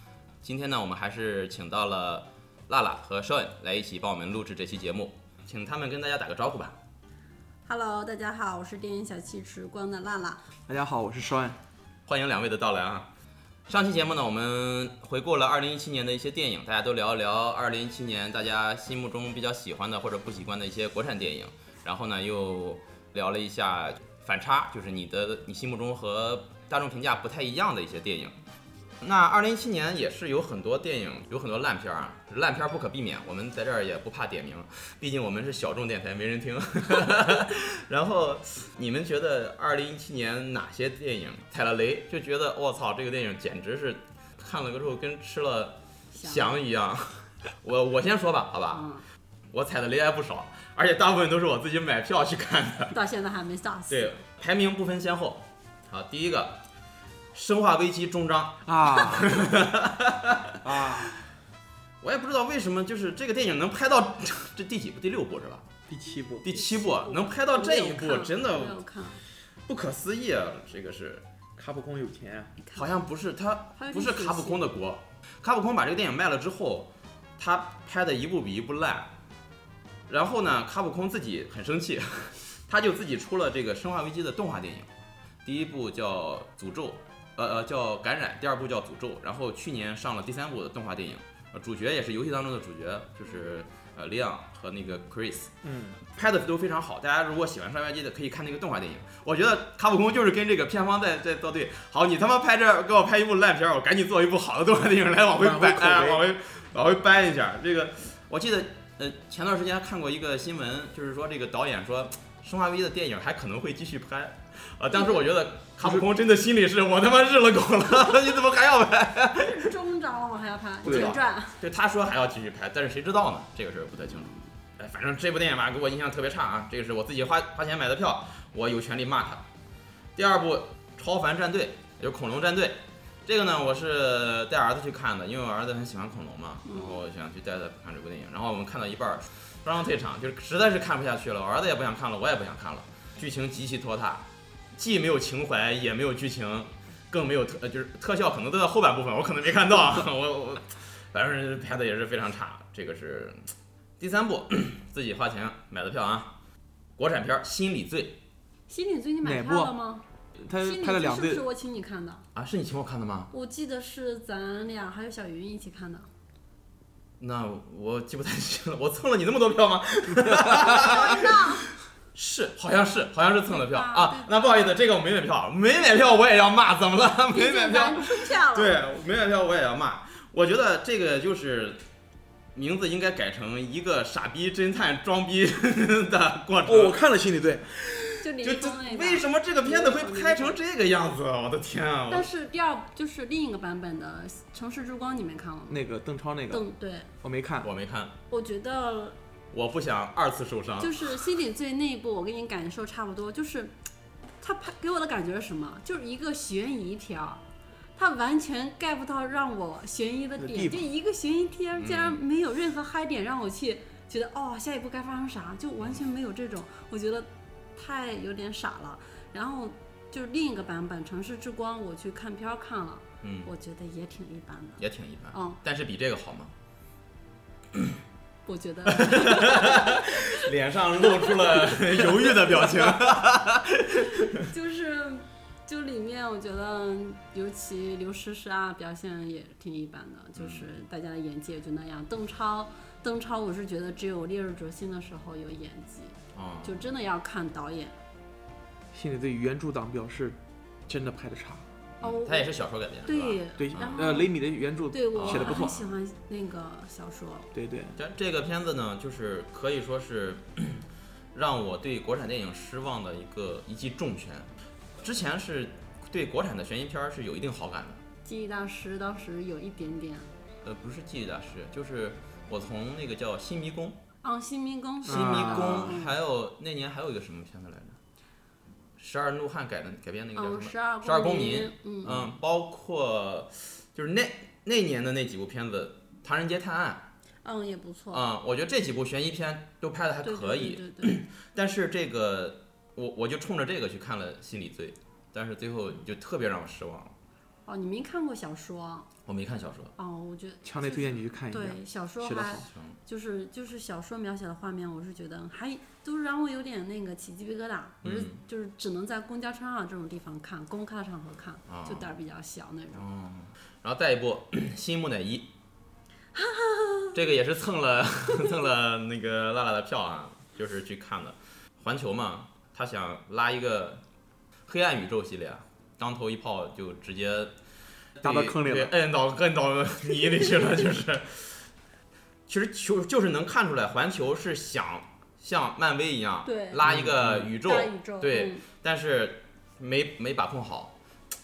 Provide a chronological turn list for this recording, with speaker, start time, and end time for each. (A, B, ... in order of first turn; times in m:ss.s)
0:00.4-0:06.8 A
0:07.6-0:10.4 B
0:10.7-0:11.6 C
0:12.1-0:13.1 A
0:13.7-0:28.4 A
0:29.0-0:48.8 A
0:46.1-0:46.5 B
0:48.7-0:49.0 B
0:49.5-0:53.0 A
0:52.9-0:54.1 B
0:53.9-0:56.6 A
0:57.3-1:01.1 A
0:58.6-0:59.3 C
1:00.6-1:01.1 C
1:02.0-1:05.6 A
1:05.9-1:06.5 C
1:06.4-1:08.8 A
1:06.6-1:09.2 B
1:09.7-1:11.2 A
1:11.6-1:12.5 C
1:12.6-1:12.9 B
1:12.7-1:19.1 A
1:13.8-1:14.7 B
1:20.1-1:24.9 A
1:25.4-1:35.5 A
1:35.6-1:36.0 C
1:36.1-1:59.7 A
1:45.4-1:46.2 C
1:59.4-2:01.6 B
2:00.8-2:09.4 A
2:00.8-2:01.1 C
2:10.2-2:36.4 A
2:16.6-2:17.0 B
2:37.0-2:38.2 A
2:38.7-2:42.2 B
2:39.2-2:39.7 C
2:40.4-2:41.4 C
2:42.3-2:43.3 A
2:43.3-2:46.1 B
2:47.2-2:51.5 A
2:50.1-2:50.8 C
2:50.7-2:51.7 B
2:52.1-3:01.8 A
2:53.5-2:54.3 B
2:57.3-2:58.8 B
3:02.5-3:07.0 A
3:06.6-3:07.7 C
3:07.8-3:12.3 A
3:08.2-3:10.6 B
3:12.1-3:15.8 B
3:15.7-3:16.6 C
3:16.5-3:17.1 B
3:17.2-3:17.7 C
3:17.6-3:18.2 A
3:18.3-3:19.2 B
3:19.5-3:21.2 A
3:20.8-3:23.7 B
3:24.4-3:27.4 B
3:28.0-3:44.8 B
3:30.4-3:30.8 C
3:31.8-3:32.2 A
3:43.2-3:43.5 A
3:44.8-3:46.5 A
3:45.3-3:45.6 B
3:48.4-3:50.4 B
3:49.0-3:54.4 A
3:51.0-3:52.4 B
3:54.4-4:08.0 B
4:00.4-4:00.6 A
4:06.3-4:06.9 A
4:08.9-4:11.6 C
4:12.0-4:14.2 A
4:12.0-4:12.5 B
4:13.0-4:14.3 B
4:13.6-4:15.8 C
4:14.9-4:17.5 B
4:15.2-4:16.0 A
4:17.5-4:18.0 C
4:18.0-4:24.5 A
4:25.0-4:28.0 A
4:28.2-4:30.3 B
4:30.6-4:34.0 A
4:34.2-4:36.1 B
4:35.0-4:36.0 C
4:35.0-4:38.0 A
4:39.0-4:47.1 A
4:40.3-4:42.3 B
4:47.4-4:48.3 B
4:48.1-4:57.1 A
4:50.2-4:51.2 B
4:57.6-4:59.1 B
4:59.2-4:59.9 A
5:00.0-5:13.0 B
5:00.6-5:02.6 C
5:02.6-5:03.0 A
5:08.0-5:08.4 A
5:11.7-5:12.1 A
5:12.9-5:15.5 A
5:16.3-5:17.2 B
5:17.1-5:24.0 A
5:24.6-5:27.5 A
5:28.2-5:31.7 A
5:28.2-5:28.9 C
5:32.5-5:40.9 A
5:36.4-5:36.9 B
5:36.8-5:37.5 C
5:37.5-5:38.6 B